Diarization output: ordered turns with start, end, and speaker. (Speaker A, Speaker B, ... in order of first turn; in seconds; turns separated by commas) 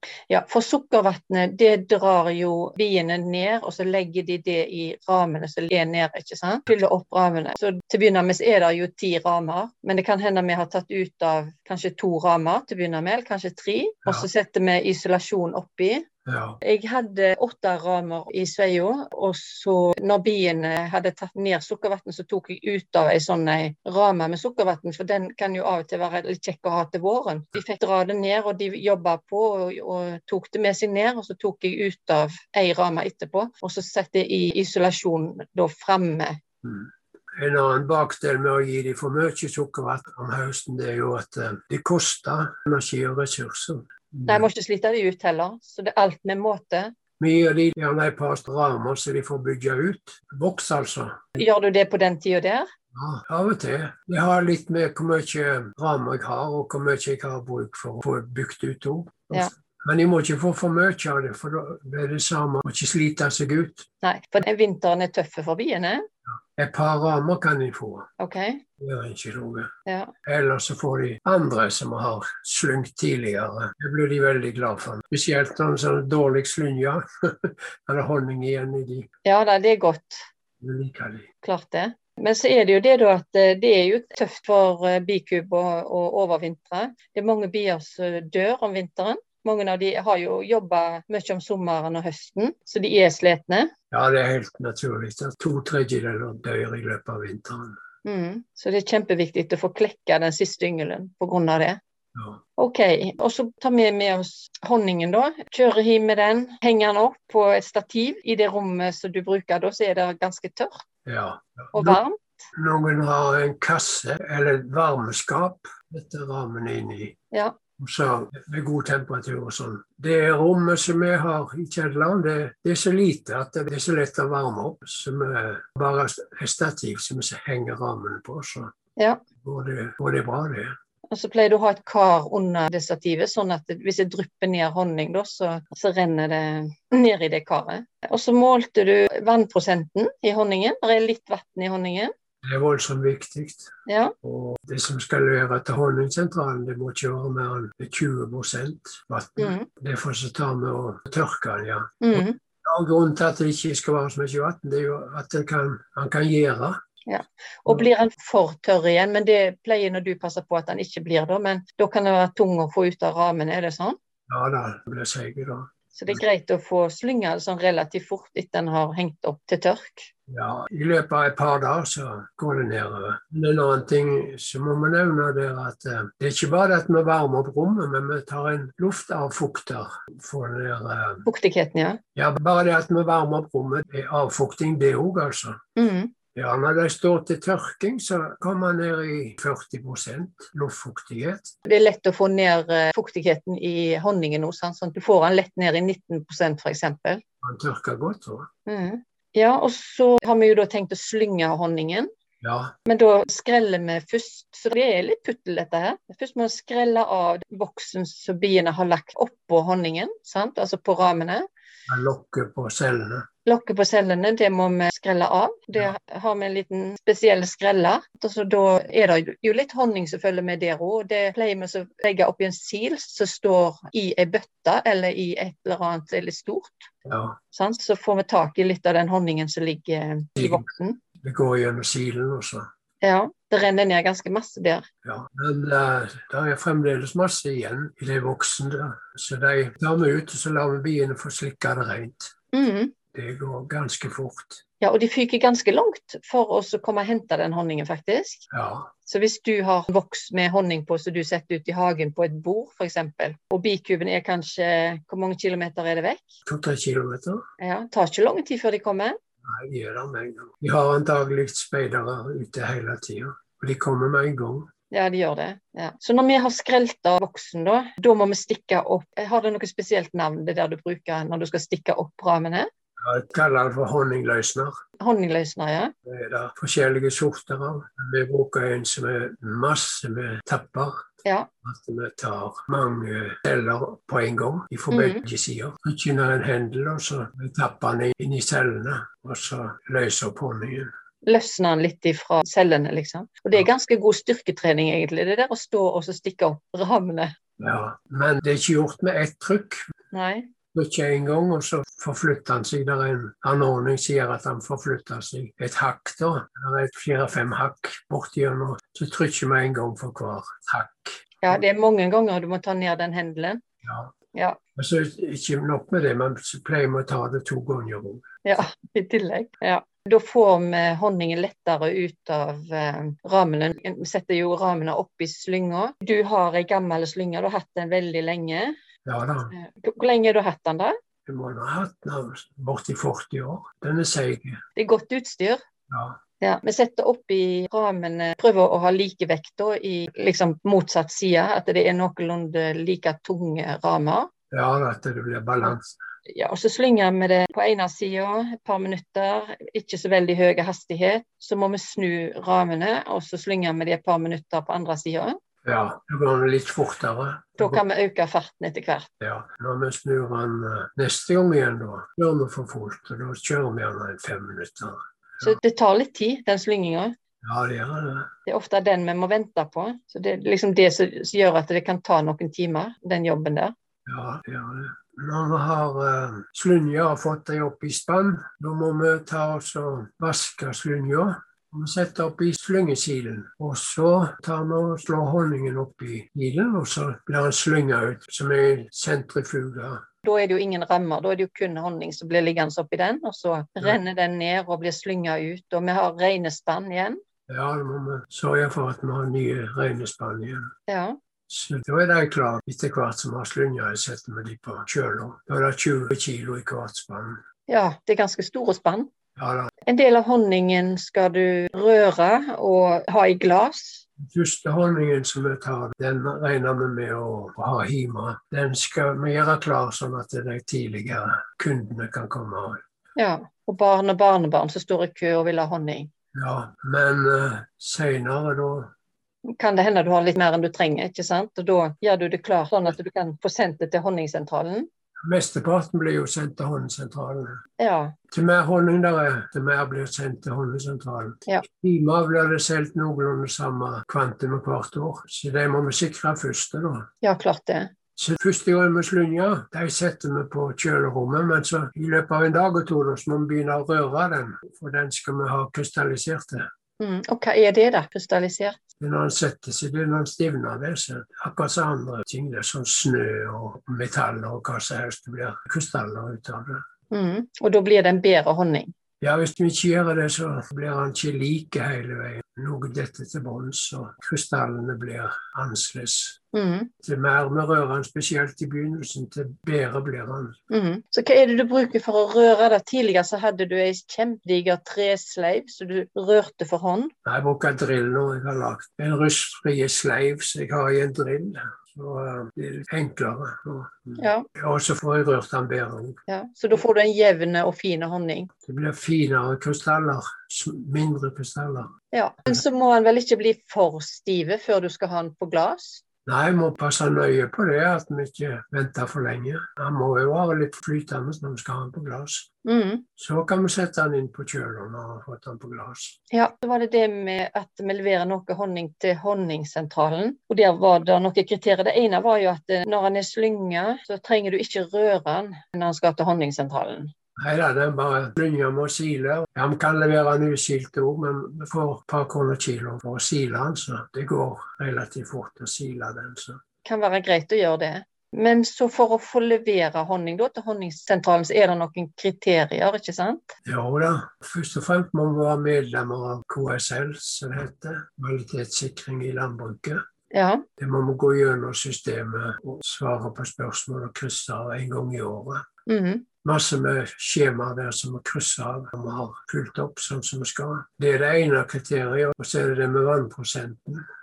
Speaker A: 0.3-16.1, Speaker B: 16.3-16.6, Speaker A: 16.6-36.4, Speaker B: 36.6-44.5, Speaker A: 44.3-46.9, Speaker B: 47.2-51.4, Speaker A: 51.4-52.7, Speaker B: 52.9-63.9, Speaker A: 64.0-66.0, Speaker B: 66.5-68.1, Speaker A: 68.2-68.6, Speaker B: 68.8-69.7, Speaker A: 69.9-70.1, Speaker B: 70.2-79.1, Speaker A: 79.2-80.2, Speaker B: 80.6-81.3, Speaker A: 81.4-93.7, Speaker B: 93.9-97.8, Speaker A: 98.0-101.8, Speaker B: 102.2-102.4, Speaker A: 102.6-110.8, Speaker B: 111.1-112.0, Speaker A: 111.7-112.2, Speaker B: 112.6-117.2, Speaker B: 117.8-128.7, Speaker A: 129.0-129.2, Speaker B: 129.4-130.7, Speaker A: 131.1-142.1, Speaker B: 142.4-143.7, Speaker A: 143.9-144.2, Speaker B: 144.2-156.8, Speaker A: 149.4-149.7, Speaker A: 152.0-152.4, Speaker A: 157.1-164.0, Speaker B: 164.3-166.2, Speaker A: 165.9-170.1, Speaker B: 170.3-181.3, Speaker A: 181.2-182.0, Speaker B: 182.2-185.6, Speaker A: 185.8-186.1, Speaker B: 186.3-191.5, Speaker A: 191.7-197.2, Speaker B: 197.4-198.5, Speaker A: 198.7-202.1, Speaker B: 202.4-202.7, Speaker A: 202.9-211.4, Speaker B: 211.9-213.3, Speaker A: 213.5-226.9, Speaker B: 227.1-227.4, Speaker A: 227.5-231.0, Speaker B: 230.4-230.6, Speaker B: 231.2-232.6, Speaker A: 233.0-234.8, Speaker B: 235.0-242.3, Speaker A: 242.5-242.9, Speaker B: 243.1-244.6, Speaker A: 244.8-248.4, Speaker B: 248.5-248.9, Speaker A: 249.1-256.3, Speaker B: 256.5-257.4, Speaker A: 257.6-259.2, Speaker B: 259.5-264.7, Speaker A: 264.9-272.7, Speaker B: 273.0-274.7, Speaker A: 275.0-275.9, Speaker B: 276.1-280.9, Speaker A: 281.2-281.5, Speaker B: 281.6-290.9, Speaker A: 284.9-285.2, Speaker A: 291.2-297.3, Speaker B: 297.6-299.8, Speaker A: 300.1-300.5, Speaker B: 300.7-311.6, Speaker A: 311.4-313.6, Speaker B: 313.8-314.1, Speaker A: 314.3-314.6, Speaker B: 314.8-318.3, Speaker A: 318.4-328.7, Speaker B: 329.1-329.5, Speaker A: 329.5-330.9, Speaker B: 331.3-334.6, Speaker A: 334.8-335.6, Speaker B: 335.9-336.2, Speaker A: 336.4-344.3, Speaker B: 344.5-346.0, Speaker A: 346.3-355.4, Speaker B: 355.6-357.8, Speaker A: 357.6-359.1, Speaker B: 359.2-365.6, Speaker A: 365.4-367.1, Speaker B: 367.4-368.3, Speaker A: 368.5-373.7, Speaker B: 374.1-390.0, Speaker A: 390.2-397.2, Speaker B: 397.5-400.7, Speaker A: 400.9-401.2, Speaker B: 401.5-407.4, Speaker A: 407.7-409.1, Speaker B: 409.4-409.7, Speaker A: 409.9-414.1, Speaker B: 414.2-422.8, Speaker A: 423.2-426.1, Speaker B: 426.4-428.9, Speaker A: 429.5-434.9, Speaker B: 435.2-437.6, Speaker A: 437.8-438.1, Speaker B: 438.3-447.1, Speaker A: 447.2-447.9, Speaker B: 448.2-456.6, Speaker A: 457.0-458.8, Speaker B: 459.0-466.8, Speaker A: 467.1-468.9, Speaker B: 469.2-476.4, Speaker A: 476.5-476.9, Speaker B: 477.0-480.6, Speaker A: 480.7-487.1, Speaker B: 487.2-496.2, Speaker A: 494.2-494.5, Speaker A: 496.3-498.5, Speaker B: 498.7-501.9, Speaker A: 502.1-506.0, Speaker B: 506.3-512.5, Speaker A: 512.6-513.0, Speaker B: 513.2-516.2, Speaker A: 516.3-527.1, Speaker B: 527.4-536.6, Speaker A: 536.8-543.5, Speaker B: 543.6-550.0, Speaker A: 550.3-550.6, Speaker B: 550.8-555.6, Speaker A: 555.9-556.3, Speaker B: 556.4-564.0